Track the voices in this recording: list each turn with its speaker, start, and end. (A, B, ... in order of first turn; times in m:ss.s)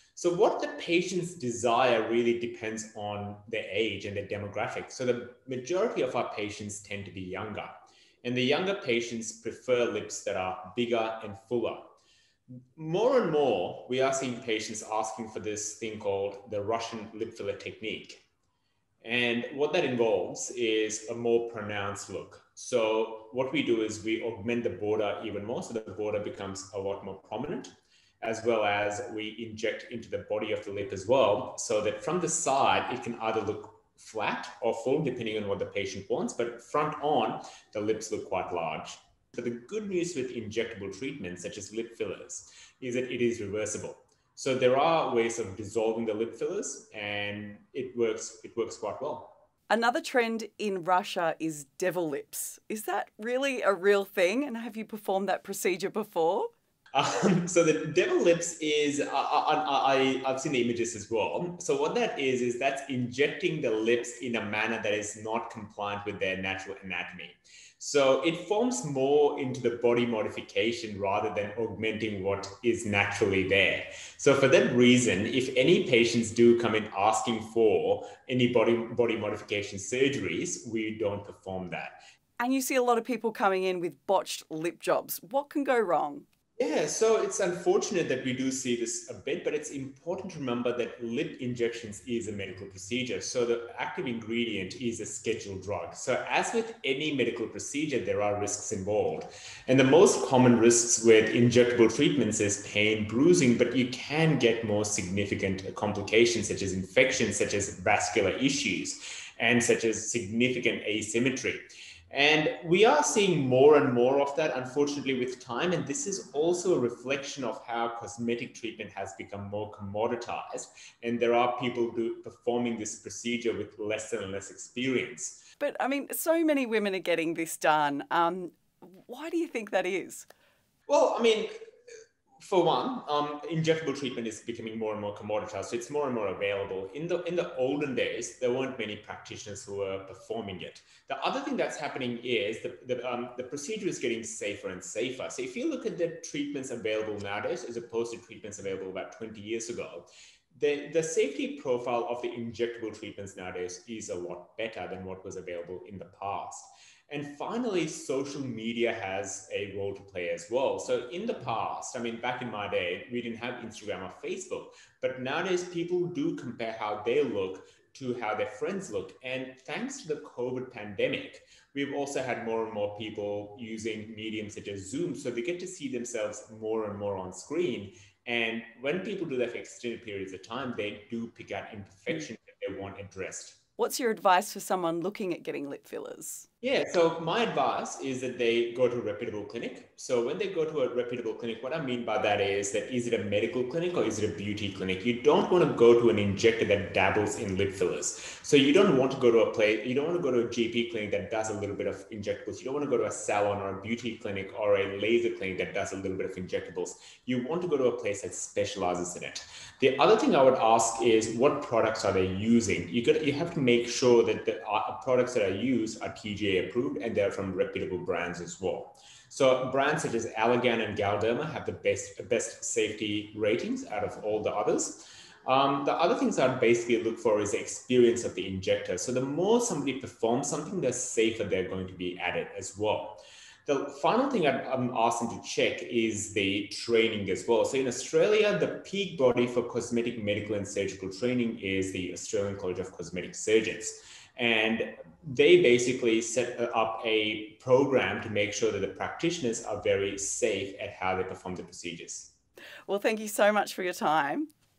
0:00.1-0:11.8 A
0:12.7-0:18.2 A
0:19.0-0:27.7 A
0:28.2-0:49.4 A
0:49.7-0:56.5 B
0:56.9-1:22.0 A
1:22.4-1:26.2 B
1:26.6-2:05.4 A
2:05.6-2:10.3 B
2:10.9-2:11.5 A
2:12.4-3:03.6 A
3:03.8-3:06.5 B
3:06.6-4:12.3 A
4:12.9-4:14.5 B